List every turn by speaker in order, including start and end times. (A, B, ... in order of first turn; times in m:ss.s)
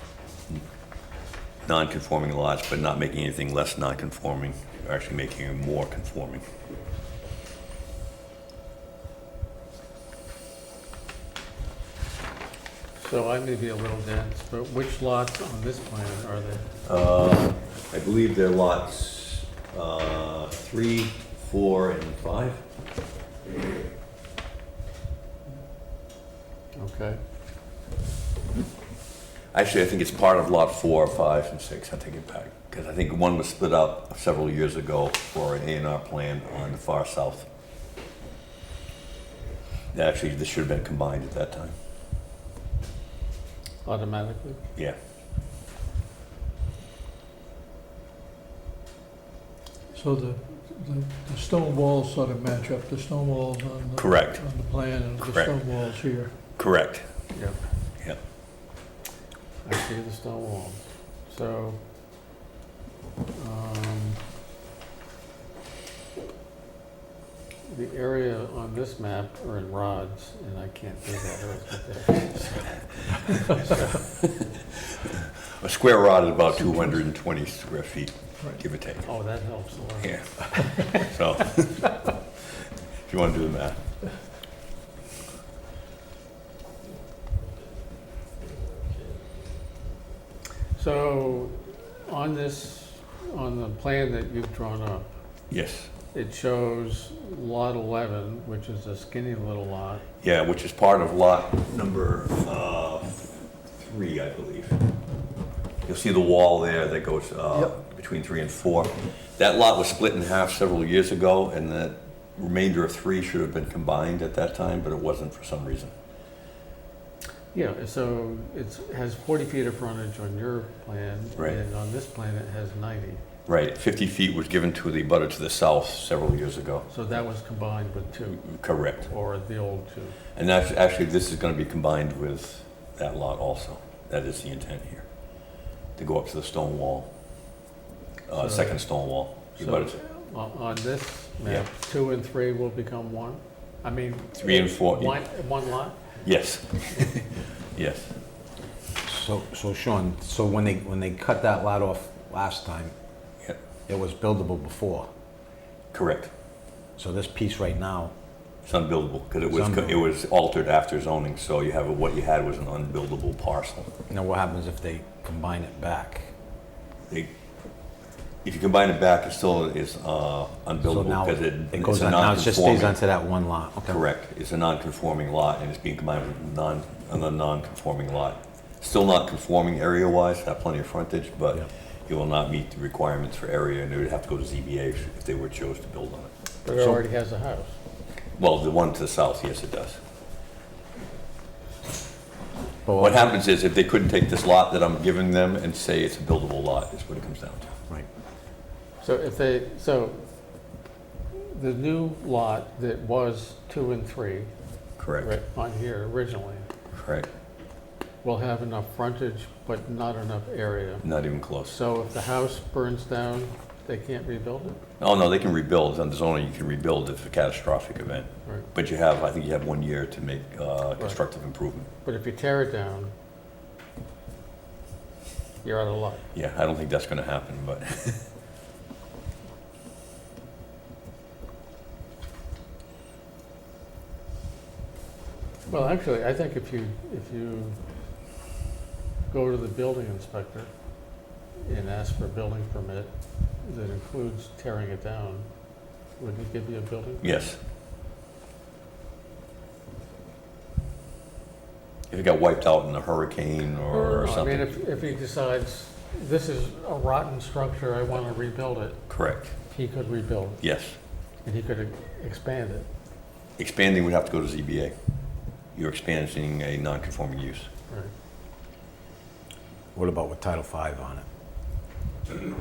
0:01.6-0:06.4 A
0:13.0-0:16.7 B
0:16.8-0:22.6 A
0:26.8-0:27.2 B
0:29.5-0:37.5 A
0:39.9-0:41.7 A
0:43.8-0:44.6 B
0:49.9-0:56.3 C
0:54.0-0:54.4 A
0:55.2-0:55.5 A
0:56.6-0:57.0 A
0:59.6-1:01.8 B
1:03.3-1:04.2 B
1:07.7-1:14.1 B
1:13.1-1:13.9 A
1:14.5-1:19.1 A
1:19.0-1:21.0 B
1:20.0-1:21.9 A
1:23.0-1:23.8 A
1:30.8-1:35.0 B
1:35.5-1:35.9 A
1:36.1-1:40.0 B
1:40.2-1:44.8 A
1:45.8-1:55.9 A
1:57.5-2:03.2 B
2:03.4-2:06.8 A
2:06.9-2:10.2 B
2:08.4-2:09.1 A
2:10.3-2:15.0 A
2:16.0-2:17.1 A
2:18.3-2:20.0 A
2:18.3-2:18.8 B
2:19.6-2:26.0 B
2:24.3-2:25.2 A
2:26.2-2:28.1 A
2:29.0-2:32.9 D
2:33.9-2:35.1 D
2:35.9-2:36.3 A
2:37.0-2:38.1 D
2:38.6-2:43.9 A
2:39.5-2:40.0 D
2:44.1-2:46.3 D
2:48.4-2:53.0 A
2:50.8-2:54.0 D
2:53.9-3:06.3 A
3:06.6-3:07.7 B
3:06.8-3:07.0 D
3:08.4-3:10.0 A
3:12.8-3:13.4 D
3:13.0-3:17.7 A
3:19.0-3:20.2 B
3:21.3-3:24.5 B
3:25.0-3:25.3 A
3:25.2-3:26.7 B
3:26.9-3:27.3 A
3:28.2-3:31.0 B
3:31.0-3:31.8 A
3:31.7-3:34.8 B
3:35.0-3:41.9 A
3:42.0-3:43.1 B
3:45.6-3:46.2 B
3:46.3-3:48.2 A
3:55.7-3:57.8 B
3:59.3-4:00.7 B
4:01.6-4:03.1 B
4:03.6-4:05.4 B
4:06.2-4:07.4 B
4:07.2-4:07.6 A
4:12.1-4:14.8 A
4:13.9-4:19.0 B
4:19.1-4:19.5 A
4:19.7-4:20.6 B
4:20.6-4:21.0 A
4:21.4-4:22.9 B
4:23.6-4:24.9 A
4:25.7-4:27.7 A
4:29.9-4:31.2 D